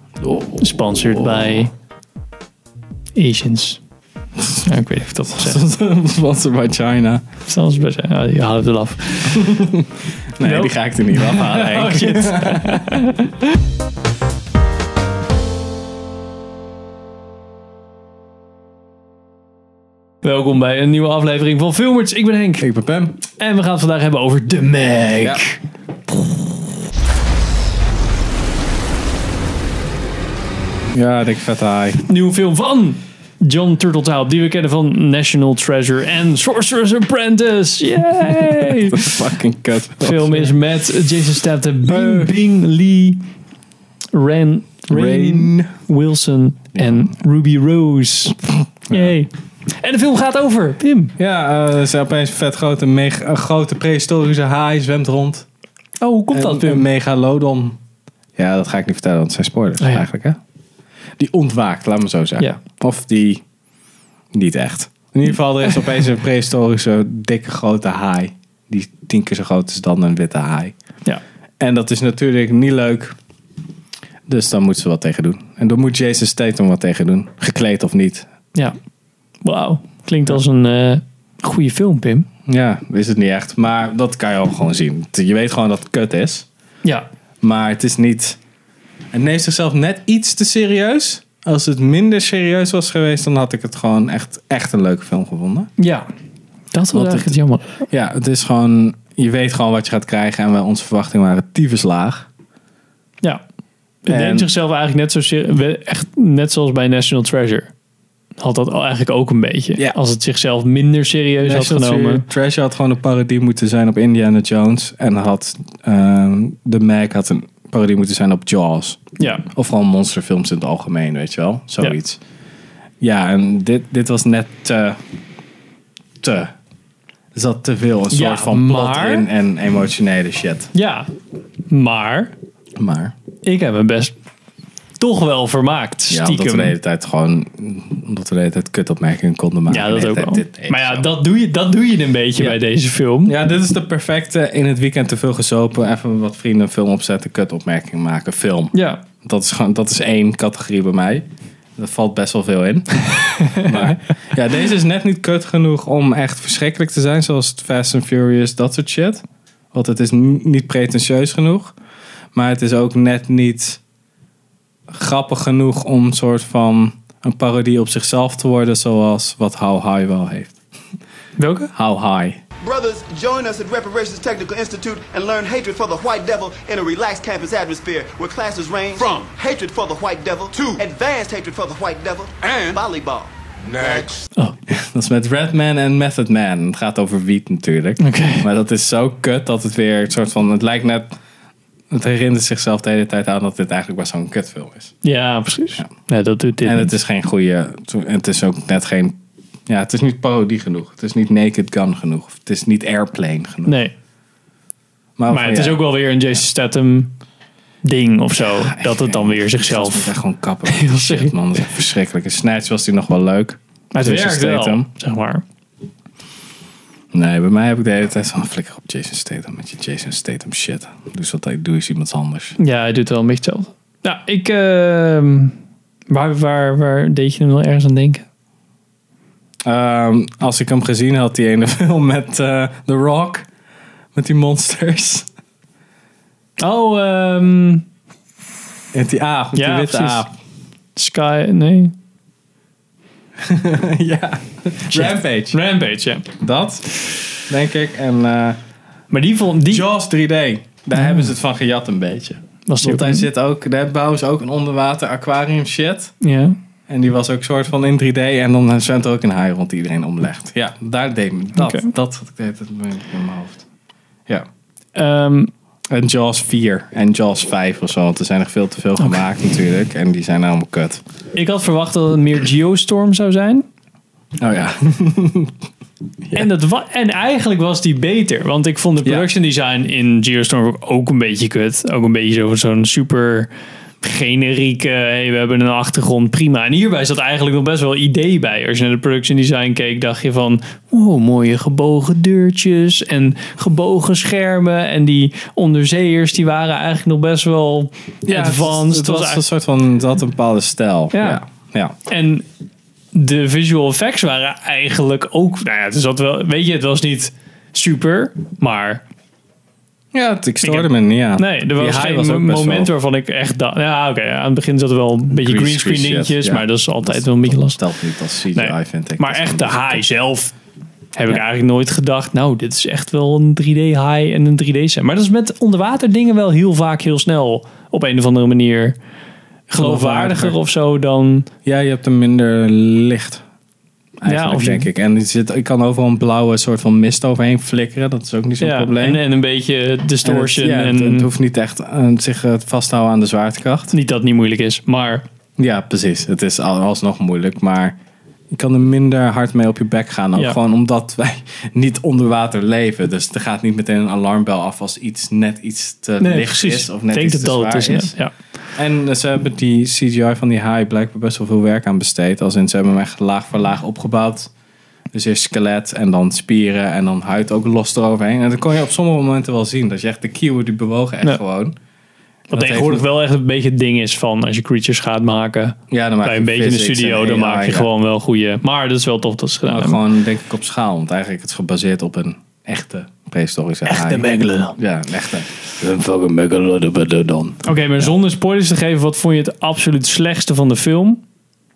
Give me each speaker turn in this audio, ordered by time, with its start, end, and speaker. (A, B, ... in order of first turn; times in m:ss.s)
0:00.2-0:00.6 A
0:00.6-0:01.7 B
0:03.2-0:03.8 B
0:04.5-0:05.6 B
0:05.3-0:07.2 A
0:07.5-0:09.6 B
0:09.3-0:13.0 A
0:10.4-0:13.5 B
0:20.2-0:22.7 B
0:22.6-0:23.2 A
0:23.3-0:25.6 B
0:25.2-0:25.4 A
0:26.1-0:26.4 B
0:30.9-0:32.1 A
0:32.1-0:39.2 B
0:38.3-0:40.6 A
0:40.0-0:43.2 B
0:41.8-0:42.3 A
0:44.1-0:51.1 B
0:44.9-0:45.7 A
0:46.8-0:47.1 A
0:48.9-0:49.1 A
0:51.2-0:55.5 A
0:56.0-0:56.9 B
0:56.3-0:57.8 A
0:58.4-1:00.4 A
0:59.8-1:00.1 B
1:01.2-1:03.4 A
1:04.3-1:10.8 A
1:11.6-1:13.2 A
1:14.3-1:18.3 A
1:19.4-1:22.3 B
1:22.5-1:26.5 A
1:27.4-1:28.4 A
1:29.1-1:35.7 A
1:35.8-1:36.1 B
1:36.7-1:37.8 B
1:36.9-1:37.4 A
1:37.9-1:42.3 A
1:44.0-1:47.7 B
1:44.1-1:44.5 A
1:48.4-1:52.2 B
1:51.4-2:02.2 A
1:59.2-1:59.4 B
2:03.0-2:05.0 A
2:06.2-2:06.5 A
2:07.3-2:10.7 A
2:08.1-2:09.3 B
2:10.7-2:11.1 B
2:11.7-2:12.3 B
2:12.8-2:13.1 A
2:13.4-2:14.1 B
2:15.0-2:16.8 B
2:16.1-2:21.1 A
2:19.7-2:23.4 B
2:23.2-2:31.2 A
2:28.7-2:29.0 B
2:31.8-2:41.7 A
2:33.2-2:33.9 B
2:42.3-2:43.8 A
2:44.9-2:50.6 A
2:51.4-2:51.7 B
2:51.8-2:52.4 A
2:52.6-3:04.2 C
3:04.7-3:11.1 A
3:08.0-3:08.5 B
3:11.9-3:15.0 A
3:15.0-3:16.9 B
3:16.6-3:19.2 A
3:19.7-3:23.8 A
3:23.7-3:23.9 B
3:25.2-3:25.8 A
3:25.3-3:27.1 B
3:27.8-3:30.1 B
3:28.4-3:34.9 A
3:30.7-3:31.3 B
3:33.9-3:35.4 B
3:37.1-3:42.6 A
3:42.6-3:45.6 B
3:46.1-3:48.2 B
3:49.6-3:53.5 A
3:54.2-3:55.3 A
3:56.6-3:57.9 B
3:58.9-4:00.3 A
3:59.5-4:00.2 B
4:01.0-4:01.9 B
4:03.4-4:05.6 A
4:04.9-4:06.3 B
4:06.4-4:08.6 A
4:09.1-4:09.9 B
4:09.7-4:16.2 A
4:11.0-4:11.3 B
4:12.7-4:13.3 B
4:16.2-4:16.6 B
4:16.9-4:23.6 A
4:21.6-4:21.9 B
4:25.0-4:25.5 B
4:25.9-4:31.0 A
4:31.4-4:33.7 B
4:34.4-4:35.5 A
4:36.3-4:43.5 B
4:44.0-4:59.4 B
4:58.3-5:02.0 A
5:01.1-5:01.4 B
5:02.1-5:02.4 B
5:03.1-5:09.0 B
5:10.1-5:12.9 A
5:10.6-5:17.8 B
5:15.3-5:20.0 A
5:18.5-5:20.5 B
5:21.2-5:29.0 B
5:29.7-5:31.5 B
5:29.8-5:30.6 A
5:31.7-5:33.4 A
5:34.2-5:39.2 A
5:34.3-5:34.9 B
5:38.6-5:41.3 B
5:40.2-5:43.9 A
5:43.9-5:45.2 B
5:45.6-5:48.0 A
5:48.5-5:58.2 A
5:56.2-5:58.3 B
5:58.8-6:04.5 A
6:05.1-6:11.8 A
6:12.5-6:13.0 A
6:12.5-6:20.0 B
6:15.9-6:17.9 A
6:19.7-6:28.1 A
6:23.9-6:24.8 B
6:27.6-6:31.2 B